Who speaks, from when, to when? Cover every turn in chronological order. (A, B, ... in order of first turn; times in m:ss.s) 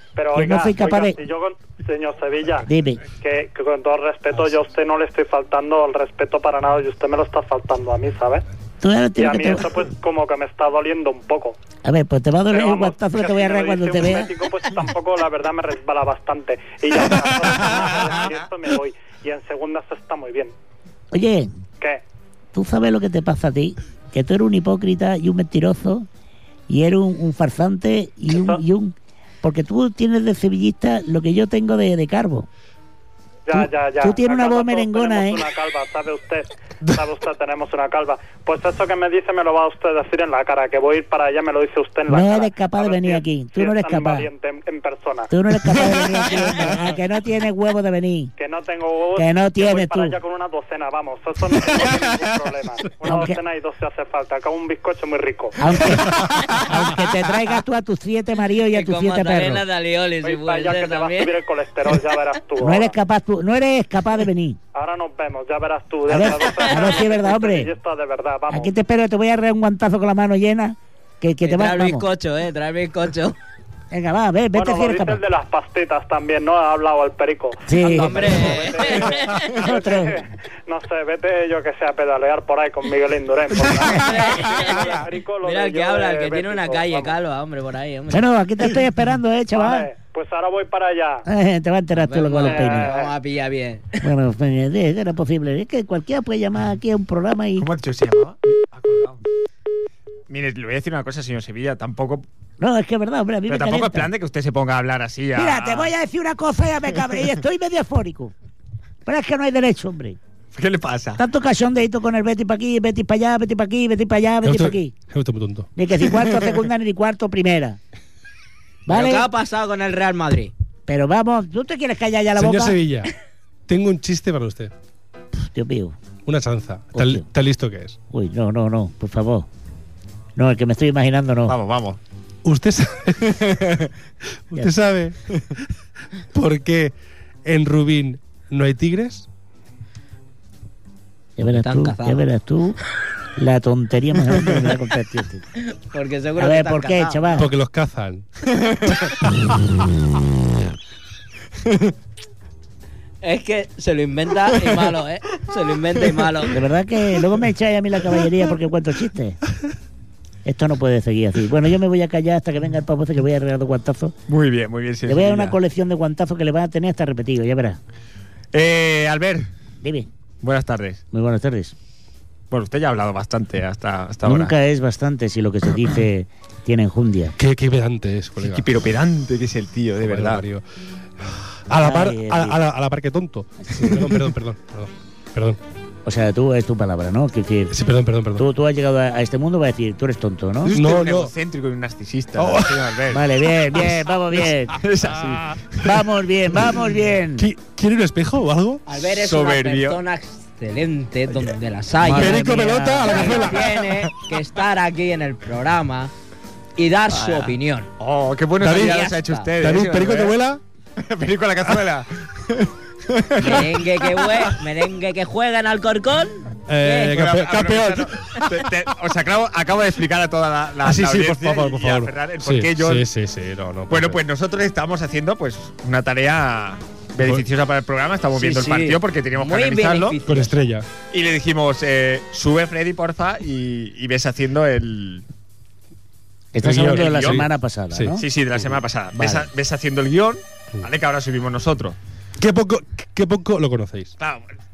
0:00.2-0:02.7 A
0:00.3-0:01.2 B
0:02.7-0:03.0 B
0:03.2-0:08.4 A
0:08.8-0:09.8 B
0:09.2-0:11.6 A
0:11.8-0:14.3 B
0:12.5-0:20.5 A
0:17.7-0:18.3 C
0:21.1-0:21.5 B
0:22.5-0:26.1 B
0:26.7-0:32.5 B
0:28.3-0:28.6 A
0:33.5-0:45.3 A
0:33.5-0:35.4 B
0:42.1-0:44.3 B
0:45.3-0:48.3 B
0:45.8-0:46.8 D
0:48.4-0:55.6 A
0:49.2-0:50.1 B
0:53.0-0:53.4 B
0:55.6-0:59.6 B
0:56.3-0:56.5 E
0:58.7-1:01.4 E
1:00.2-1:02.9 A
1:02.6-1:04.6 B
1:04.7-1:08.7 A
1:06.1-1:07.7 B
1:06.4-1:07.0 E
1:08.5-1:12.0 B
1:11.4-1:13.4 E
1:13.9-1:15.2 B
1:14.5-1:27.1 A
1:17.6-1:18.4 B
1:17.8-1:19.6 E
1:19.5-1:20.2 B
1:23.8-1:28.3 E
1:28.1-1:29.9 B
1:29.5-1:31.2 A
1:31.3-1:32.9 B
1:32.0-1:34.0 E
1:32.4-1:33.1 A
1:34.0-1:37.7 B
1:37.6-1:39.2 C
1:40.3-1:42.2 C
1:42.6-1:44.1 B
1:43.5-1:45.9 C
1:45.3-1:48.3 B
1:49.0-1:50.2 B
1:50.5-1:51.2 C
1:51.2-1:54.9 B
1:54.4-1:55.7 D
1:55.8-1:57.8 B
1:58.8-1:59.3 B
1:58.9-2:00.5 E
2:00.9-2:02.8 B
2:02.4-2:03.1 D
2:03.7-2:04.7 D
2:05.4-2:06.0 B
2:06.2-2:08.0 D
2:06.9-2:07.2 B
2:08.1-2:09.5 B
2:10.4-2:11.6 B
2:11.5-2:12.0 C
2:12.4-2:13.5 D
2:13.3-2:13.9 C
2:14.5-2:15.6 D
2:16.3-2:19.3 D
2:21.4-2:22.8 B
2:21.5-2:22.2 E
2:23.4-2:25.4 B
2:25.7-2:27.5 E
2:26.4-2:27.5 B
2:27.4-2:28.3 D
2:28.6-2:28.9 C
2:31.6-2:31.9 C
2:33.2-2:36.6 E
2:36.5-2:39.4 B
2:40.4-2:44.1 B
2:44.3-2:45.6 C
2:45.1-2:47.8 B
2:48.5-2:49.5 C
2:49.8-2:50.1 B
2:50.4-2:51.0 C
2:51.1-2:51.8 B
2:52.5-2:54.5 C
2:54.2-2:57.3 B
2:57.4-2:58.8 D
2:58.4-3:00.4 C
3:00.0-3:00.6 D
3:01.2-3:05.6 D
3:01.8-3:02.6 B
3:03.7-3:04.1 B
3:06.0-3:07.8 B
3:07.7-3:08.4 D
3:08.4-3:10.7 B
3:10.6-3:13.2 C
3:10.7-3:11.3 D
3:12.4-3:12.8 D
3:13.1-3:14.8 B
3:14.7-3:15.9 C
3:15.8-3:17.5 B
3:17.4-3:18.8 D
3:18.9-3:22.4 E
3:19.0-3:20.0 C
3:22.0-3:23.5 B
3:22.0-3:23.9 D
3:23.0-3:26.1 E
3:26.8-3:27.9 E
3:27.1-3:30.4 C
3:28.6-3:29.0 D
3:28.8-3:29.5 E
3:29.6-3:30.6 D
3:31.0-3:34.6 C
3:33.4-3:37.2 E
3:36.7-3:38.2 D
3:37.1-3:43.1 C
3:40.8-3:44.2 D
3:43.9-3:50.2 C
3:48.3-3:50.5 E
3:50.3-3:50.9 D
3:51.1-3:55.2 C
3:56.5-3:58.2 B
3:56.6-3:58.7 D
3:56.8-3:57.5 C
3:58.2-4:02.0 C
3:59.1-3:59.5 B
4:02.4-4:04.1 D
4:04.2-4:04.5 C